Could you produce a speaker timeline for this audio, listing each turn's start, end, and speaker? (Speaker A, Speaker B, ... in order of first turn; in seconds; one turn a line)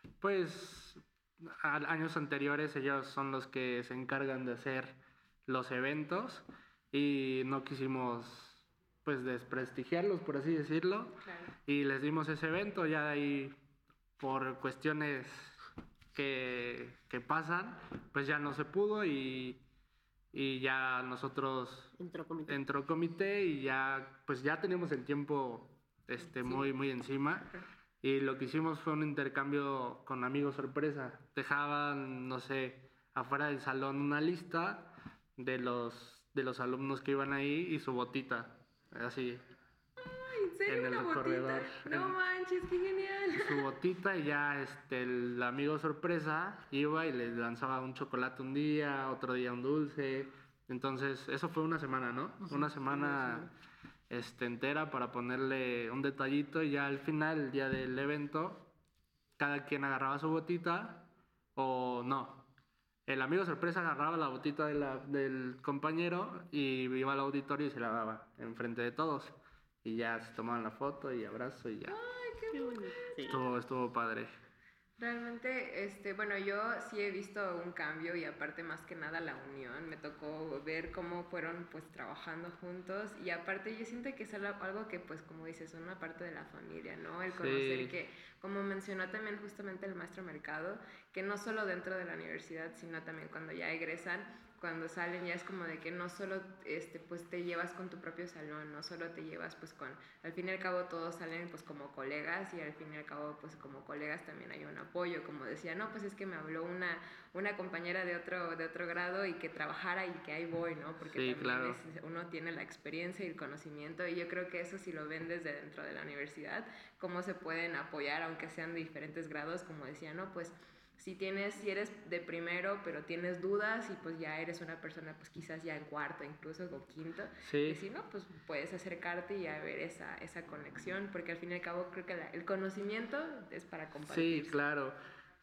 Speaker A: 0.2-13.6
Speaker B: 11.2-11.5
Speaker A: 14.2-15.6
Speaker A: 16.1-19.6
Speaker A: 20.3-21.9
Speaker C: 22.0-22.6
Speaker A: 22.5-27.5
Speaker A: 28.0-39.4
Speaker B: 40.0-43.6
Speaker A: 40.7-42.2
Speaker A: 43.4-53.5
Speaker C: 52.4-53.5
Speaker A: 54.1-58.7
Speaker A: 59.4-62.5
Speaker A: 63.1-72.0
Speaker B: 71.9-72.9
Speaker C: 72.5-73.4
Speaker A: 73.2-74.3
Speaker B: 75.0-134.6
Speaker A: 87.3-88.0
Speaker A: 111.1-111.8
Speaker A: 127.4-127.8
Speaker A: 134.1-135.0